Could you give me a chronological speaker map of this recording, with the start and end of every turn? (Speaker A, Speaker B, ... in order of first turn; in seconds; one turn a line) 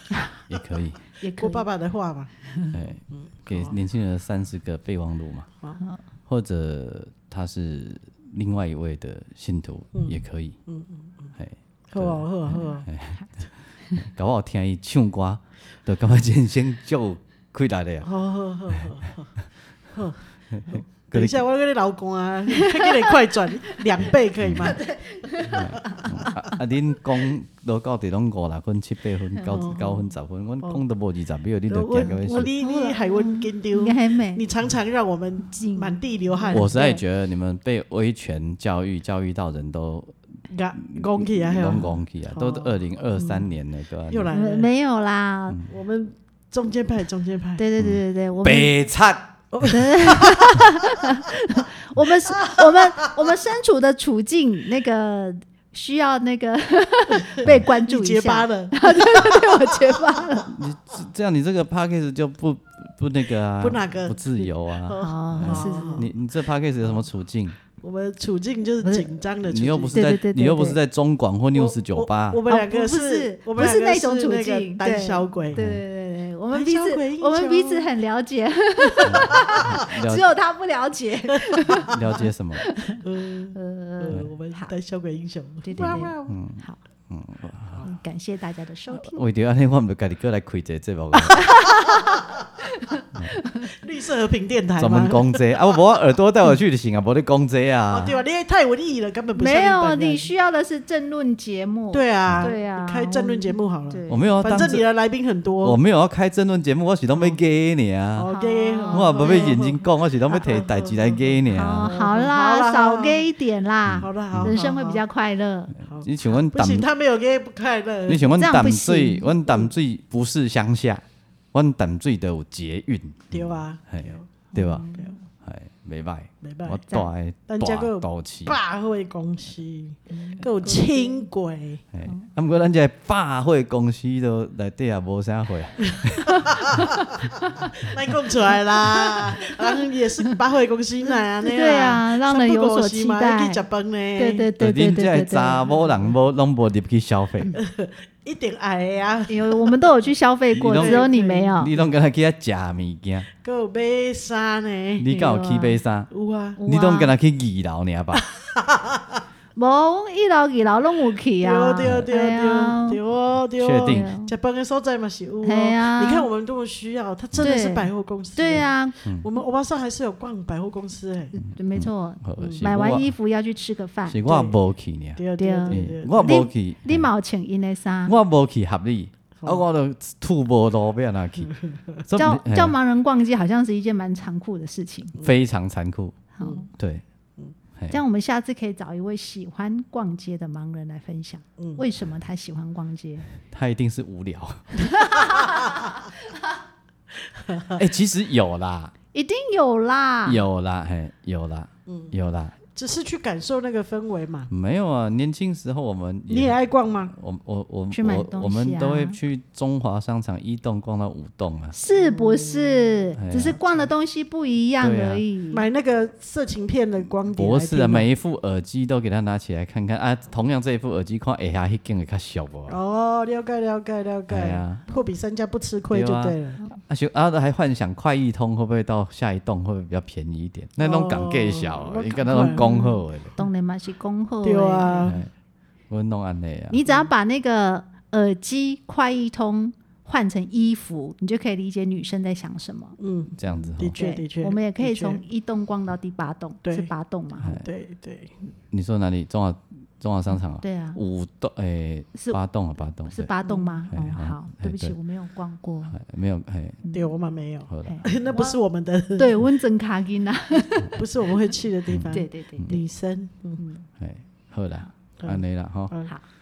Speaker A: 0.5-1.0
Speaker B: 1.2-1.7
Speaker C: 1.4-2.3
Speaker A: 2.7-5.5
Speaker C: 3.1-3.8
Speaker A: 6.3-10.6
Speaker C: 9.9-11.3
Speaker A: 11.4-18.1
Speaker C: 11.9-12.9
Speaker C: 18.0-19.4
Speaker C: 19.9-20.2
Speaker A: 20.5-21.4
Speaker C: 20.7-24.8
Speaker B: 22.6-23.1
Speaker A: 24.1-24.8
Speaker B: 24.6-26.5
Speaker A: 25.5-32.5
Speaker C: 29.5-30.1
Speaker C: 31.7-36.7
Speaker B: 32.0-34.4
Speaker B: 35.5-37.0
Speaker A: 36.5-40.2
Speaker C: 40.5-42.9
Speaker A: 40.9-44.3
Speaker C: 44.1-44.7
Speaker B: 44.3-45.6
Speaker C: 45.7-47.7
Speaker B: 47.6-48.8
Speaker A: 47.8-49.4
Speaker C: 49.5-50.7
Speaker B: 49.6-60.6
Speaker C: 52.4-53.2
Speaker C: 57.2-59.9
Speaker A: 60.5-67.6
Speaker C: 63.6-66.1
Speaker B: 65.0-66.1
Speaker C: 67.8-70.0
Speaker B: 68.8-69.1
Speaker A: 69.5-72.4
Speaker B: 69.9-70.8
Speaker C: 71.5-75.6
Speaker B: 72.5-82.0
Speaker A: 75.5-75.8
Speaker C: 76.5-77.9
Speaker C: 79.0-79.6
Speaker A: 79.1-80.3
Speaker C: 81.5-81.9
Speaker A: 81.9-82.7
Speaker B: 82.6-83.0
Speaker C: 83.0-86.3
Speaker B: 83.5-84.7
Speaker B: 85.6-86.8
Speaker A: 85.8-87.9
Speaker B: 87.8-89.2
Speaker A: 89.0-91.5
Speaker B: 91.4-93.7
Speaker C: 93.6-95.8
Speaker A: 94.8-98.1
Speaker C: 97.9-100.3
Speaker B: 99.4-104.8
Speaker C: 101.9-105.8
Speaker A: 102.3-102.5
Speaker A: 104.1-104.8
Speaker A: 105.6-108.3
Speaker C: 108.2-109.8
Speaker B: 108.3-109.6
Speaker A: 108.9-111.9
Speaker C: 110.4-113.3
Speaker B: 111.5-115.8
Speaker A: 113.9-114.5
Speaker C: 114.0-115.0
Speaker A: 115.8-116.9
Speaker C: 115.9-118.3
Speaker A: 118.1-128.6
Speaker B: 118.3-119.3
Speaker C: 123.3-125.1
Speaker B: 124.5-125.2
Speaker C: 126.4-126.8
Speaker C: 127.5-131.8
Speaker B: 130.1-131.3
Speaker A: 131.9-136.9
Speaker C: 135.9-137.0
Speaker B: 136.6-137.1
Speaker C: 137.7-144.5
Speaker B: 138.9-139.8
Speaker B: 141.4-143.6
Speaker B: 144.2-145.7
Speaker A: 144.6-147.5
Speaker C: 147.6-150.0
Speaker B: 149.3-151.7
Speaker A: 150.6-153.3
Speaker C: 150.7-151.9
Speaker C: 153.4-155.1
Speaker A: 155.0-156.1
Speaker B: 155.1-155.8
Speaker C: 156.1-156.6
Speaker B: 156.6-157.1
Speaker A: 156.7-158.2
Speaker C: 158.2-159.2
Speaker B: 159.6-163.0
Speaker C: 161.4-171.3
Speaker A: 161.8-162.1
Speaker A: 163.6-164.1
Speaker B: 163.8-164.3
Speaker B: 165.4-166.3
Speaker B: 167.4-169.0
Speaker B: 171.3-174.2
Speaker A: 171.4-173.1
Speaker C: 172.4-172.7
Speaker A: 174.1-177.1
Speaker C: 174.2-174.6
Speaker C: 175.2-176.4
Speaker B: 175.4-178.1
Speaker A: 178.1-182.8
Speaker B: 182.2-185.2
Speaker A: 185.2-187.0
Speaker B: 186.4-186.7
Speaker B: 187.9-193.3
Speaker A: 193.5-194.7
Speaker B: 194.8-196.0
Speaker C: 197.2-197.8
Speaker A: 197.8-198.9
Speaker B: 199.1-200.4
Speaker A: 200.3-202.6
Speaker C: 201.9-202.2
Speaker C: 202.8-204.5
Speaker A: 204.5-206.6
Speaker C: 206.3-207.2
Speaker A: 207.1-211.7
Speaker B: 207.9-209.2
Speaker B: 211.7-215.7
Speaker C: 211.9-213.9
Speaker A: 213.2-213.6
Speaker A: 214.8-215.2
Speaker C: 215.5-218.1
Speaker A: 217.4-222.8
Speaker C: 222.7-226.6
Speaker A: 224.3-224.8
Speaker A: 225.9-233.3
Speaker C: 230.8-233.0
Speaker B: 233.4-235.1
Speaker C: 234.4-235.2
Speaker A: 235.0-235.3
Speaker A: 235.9-236.8
Speaker B: 236.7-243.0
Speaker C: 243.0-245.2
Speaker A: 243.4-244.0
Speaker B: 244.0-247.6
Speaker C: 246.7-246.9
Speaker A: 247.4-247.7
Speaker C: 247.6-248.3
Speaker A: 248.7-253.3
Speaker B: 250.6-251.0
Speaker B: 252.1-252.4
Speaker B: 253.1-256.0
Speaker C: 253.4-253.8
Speaker A: 253.9-254.9
Speaker A: 255.9-256.8
Speaker B: 256.8-257.1
Speaker C: 256.9-259.3
Speaker A: 257.7-258.0
Speaker B: 257.8-258.6
Speaker B: 259.1-261.1
Speaker C: 260.9-263.6
Speaker A: 261.9-262.8
Speaker B: 262.1-262.7
Speaker B: 263.6-263.9
Speaker A: 264.0-265.9
Speaker C: 265.2-266.1